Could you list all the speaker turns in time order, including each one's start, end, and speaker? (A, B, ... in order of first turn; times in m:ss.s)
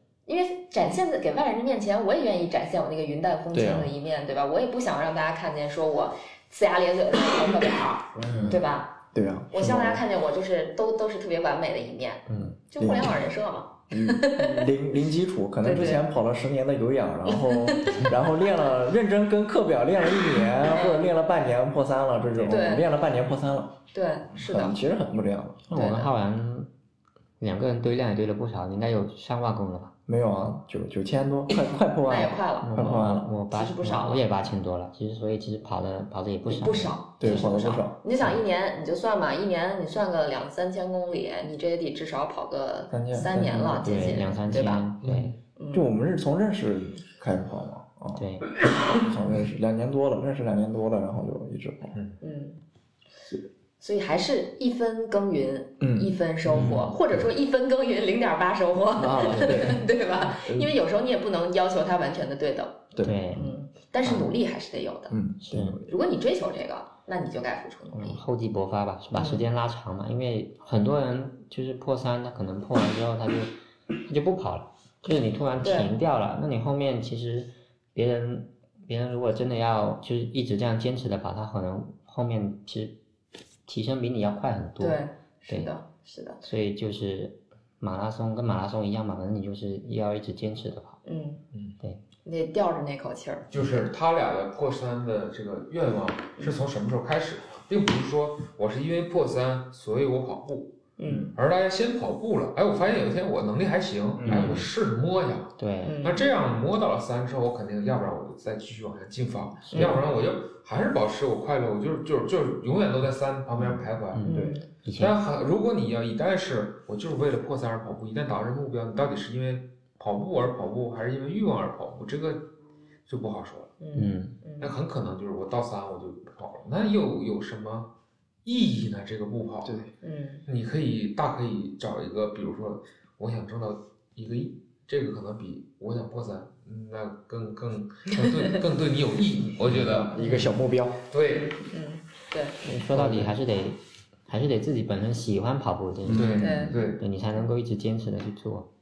0:00.3-0:14.7 A
0:03.5-0:03.9 B
0:08.2-0:08.6 B
0:09.1-0:10.0 B
0:12.3-0:12.6 C
0:12.8-0:13.1 B
0:13.9-0:23.8 B
0:15.6-0:16.0 A
0:17.7-0:18.0 A
0:20.7-0:21.0 A
0:22.5-0:22.9 A
0:23.9-0:24.8 A
0:24.3-0:25.7 B
0:25.7-0:26.7 C
0:25.7-0:26.1 A
0:27.4-0:29.9 C
0:30.1-0:33.3 B
0:31.7-0:34.3 A
0:32.6-0:38.4 C
0:36.4-0:44.8 A
0:37.2-0:38.0 B
0:42.9-0:44.2 B
0:43.8-0:45.4 C
0:45.0-0:45.4 D
0:45.6-0:45.9 A
0:45.7-0:52.0 B
0:48.2-0:48.5 C
0:52.2-0:52.6 A
0:53.8-1:05.2 A
0:55.8-0:56.7 B
0:56.5-0:56.9 C
0:59.0-1:00.7 B
1:03.0-1:03.5 B
1:03.0-1:03.5 C
1:05.1-1:05.9 B
1:05.4-1:05.8 C
1:05.8-1:08.2 A
1:07.9-1:13.5 C
1:09.2-1:09.4 A
1:14.0-1:23.0 C
1:15.6-1:15.9 A
1:23.7-1:25.7 C
1:24.8-1:26.4 A
1:26.4-1:31.0 C
1:31.0-1:31.4 A
1:32.2-1:33.5 A
1:33.5-1:40.8 D
1:41.0-1:41.3 A
1:41.1-1:41.4 B
1:41.4-1:54.2 D
1:44.2-1:44.7 B
1:44.2-1:44.7 C
1:45.6-1:46.0 C
1:45.8-1:46.3 A
1:49.7-1:50.0 C
1:53.6-1:54.6 B
1:54.1-1:55.2 C
1:54.2-1:54.7 A
1:55.0-2:02.5 D
2:03.1-2:03.8 D
2:03.8-2:04.7 A
2:03.9-2:04.4 C
2:04.6-2:07.9 D
2:08.4-2:09.8 D
2:09.6-2:09.9 B
2:10.0-2:10.4 A
2:10.5-2:20.5 D
2:19.7-2:21.0 B
2:21.1-2:21.6 D
2:21.3-2:22.6 A
2:22.6-2:28.7 C
2:22.9-2:23.3 D
2:26.0-2:26.8 B
2:26.1-2:27.0 D
2:26.4-2:26.8 A